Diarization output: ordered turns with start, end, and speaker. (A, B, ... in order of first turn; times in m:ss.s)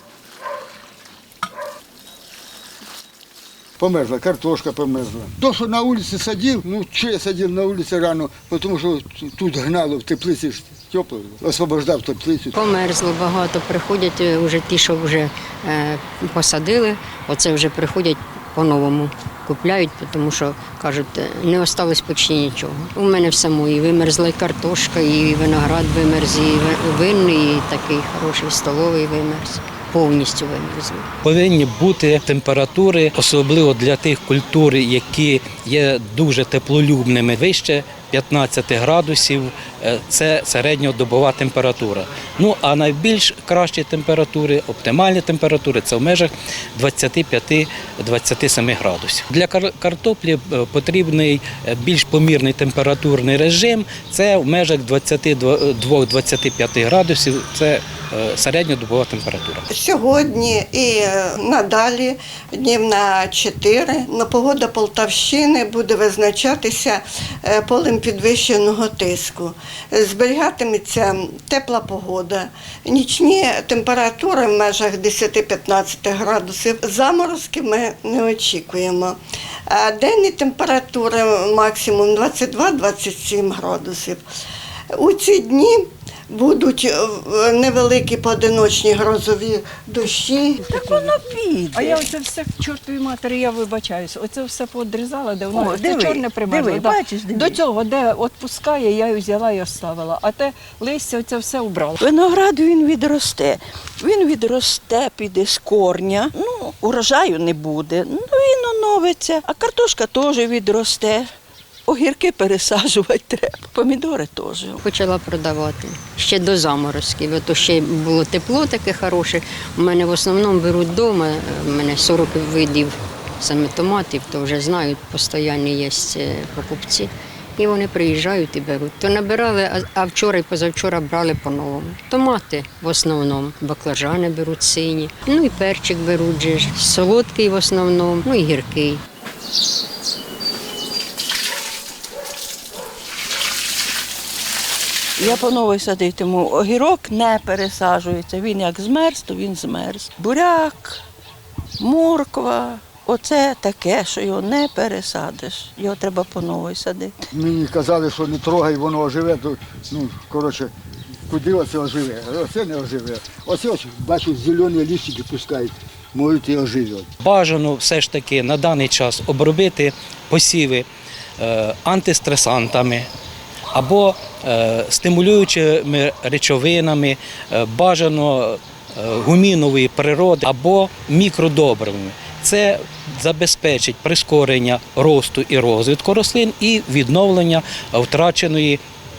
0:03.8-0:12.6 A
0:12.6-0:31.1 B
0:31.2-0:59.6 C
0:59.7-1:19.2 D
1:19.7-1:24.2 D
1:24.9-1:30.8 D
1:30.6-1:42.0 E
1:30.8-1:31.2 F
1:31.7-1:32.1 F
1:35.5-1:37.6 F
1:42.0-1:51.3 F
1:51.9-1:54.8 F
1:54.8-2:19.0 B
2:25.2-2:31.0 F
2:31.8-2:37.2 F
2:37.3-2:40.7 A
2:41.3-2:47.1 A
2:47.2-2:50.8 C
2:51.4-2:53.1 C
2:53.7-3:08.8 C